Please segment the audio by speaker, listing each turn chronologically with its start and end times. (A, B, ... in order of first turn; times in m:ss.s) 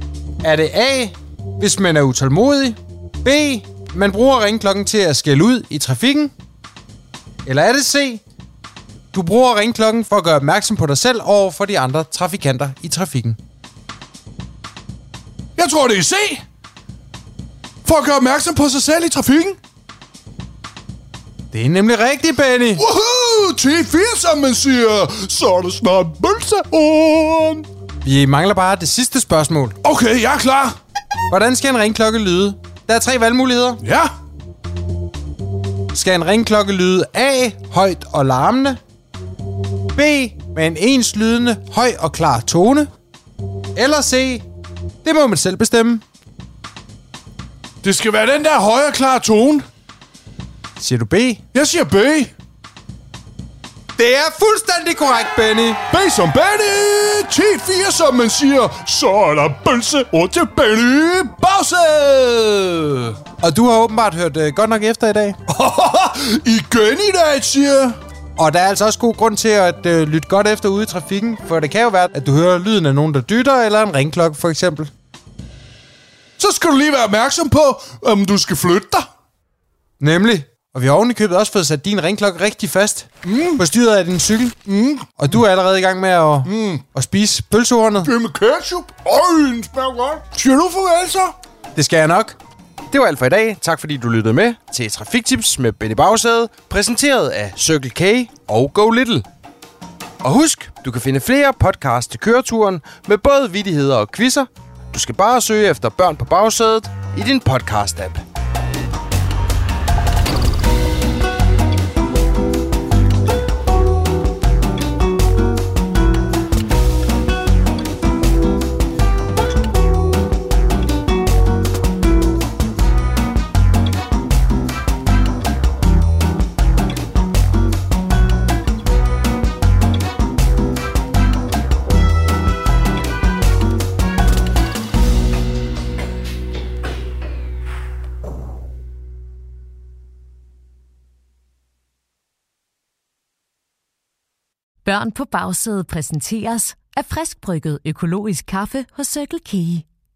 0:00.4-0:06.3 A
0:07.4-0:08.2 A
0:09.1-0:13.4 A
0:15.6-0:16.4 B
0:17.8-0:19.6 B
0:21.5-0:22.8 A
0:22.8-0:27.7 B
0:28.0-0:29.8 A
0:29.8-0:30.7 B
0:31.3-0:33.8 A
0:33.8-0:34.1 B
0:35.9-0:38.8 A
0:39.9-0:42.9 A
0:43.7-0:44.4 A
0:45.0-0:46.0 A
0:47.8-0:49.6 B
0:50.8-0:51.4 A
0:51.5-0:52.3 B
0:54.0-0:55.8 A
0:55.9-1:03.2 B
1:03.4-1:05.4 A
1:05.5-1:08.0 B
1:08.4-1:14.9 A
1:16.4-1:19.0 B
1:20.0-1:24.6 A
1:23.2-1:23.6 B
1:24.6-1:25.2 B
1:25.2-1:28.1 A
1:26.4-1:26.8 B
1:28.0-1:31.3 B
1:31.7-1:32.4 A
1:32.9-1:39.2 A
1:40.2-1:48.2 A
2:24.8-2:29.8 C